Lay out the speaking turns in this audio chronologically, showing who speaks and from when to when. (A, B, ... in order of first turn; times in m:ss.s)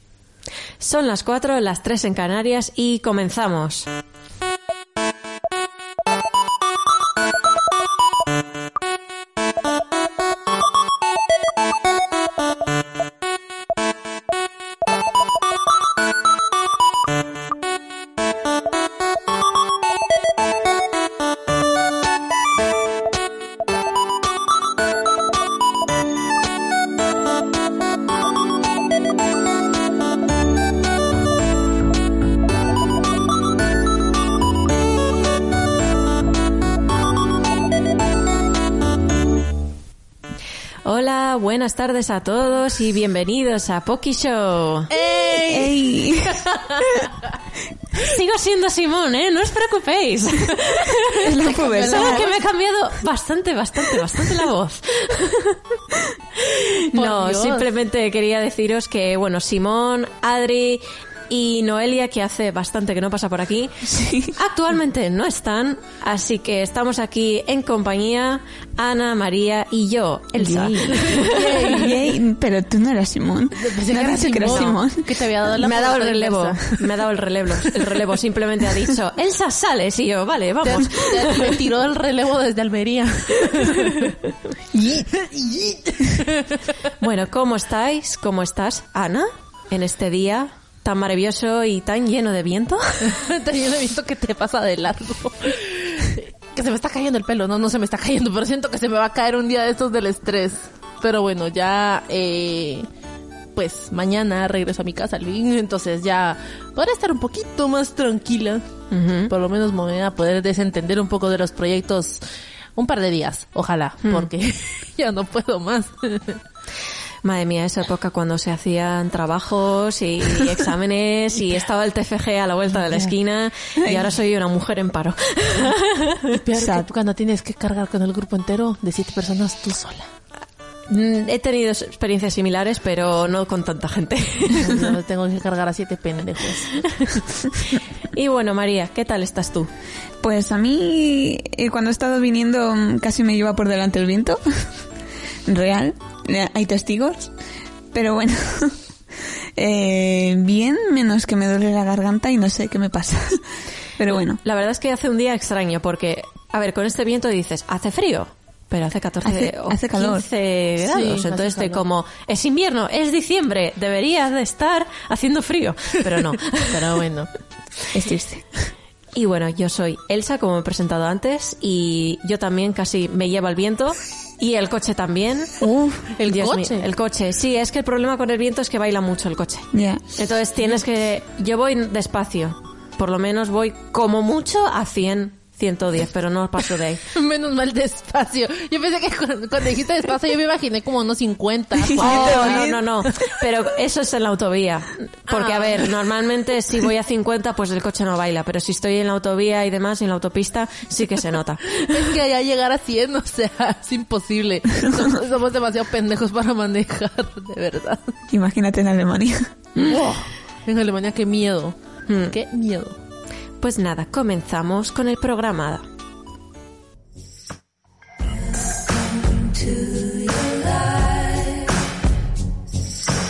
0:00.8-0:03.9 A
0:40.8-0:44.9 A
0:44.9-0:47.1 B
0:45.3-0:47.0 C
0:48.0-0:55.6 A
0:51.1-0:52.3 C
0:51.4-0:52.4 B
0:53.9-0:54.4 B
0:56.4-1:11.7 A
0:56.9-0:57.7 B
1:03.8-1:04.3 C
1:10.4-1:15.0 C
1:11.1-1:11.9 B
1:13.6-1:16.8 B
1:14.4-1:14.8 A
1:15.6-1:21.6 A
1:20.6-1:24.1 B
1:23.6-1:24.1 A
1:24.7-1:26.9 B
1:27.0-1:33.1 A
1:33.0-1:42.9 B
1:43.5-1:48.7 B
1:48.9-1:49.3 A
1:49.3-1:52.2 B
1:52.8-1:56.4 B
1:57.2-2:06.3 A
2:03.8-2:04.1 C
2:06.3-2:10.1 B
2:06.6-2:06.9 C
2:10.9-2:14.9 A
2:14.5-2:17.2 B
2:18.1-2:19.7 A
2:20.2-2:24.7 C
2:25.5-2:27.3 C
2:27.9-2:28.8 C
2:29.6-2:33.4 C
2:34.0-2:34.4 C
2:34.4-2:46.8 A
2:39.2-2:40.2 C
2:40.8-2:41.8 B
2:46.7-2:47.3 B
2:47.9-2:48.7 C
2:49.1-2:55.6 A
2:55.6-2:56.1 C
2:56.2-2:56.9 B
2:56.2-3:07.0 A
2:59.7-3:00.0 C
3:07.1-3:13.1 B
3:11.9-3:12.8 C
3:12.0-3:22.1 A
3:15.3-3:15.9 B
3:21.8-3:28.2 B
3:28.3-3:29.5 C
3:29.8-3:31.8 B
3:32.1-3:32.3 A
3:32.3-3:33.0 B
3:33.6-3:35.8 A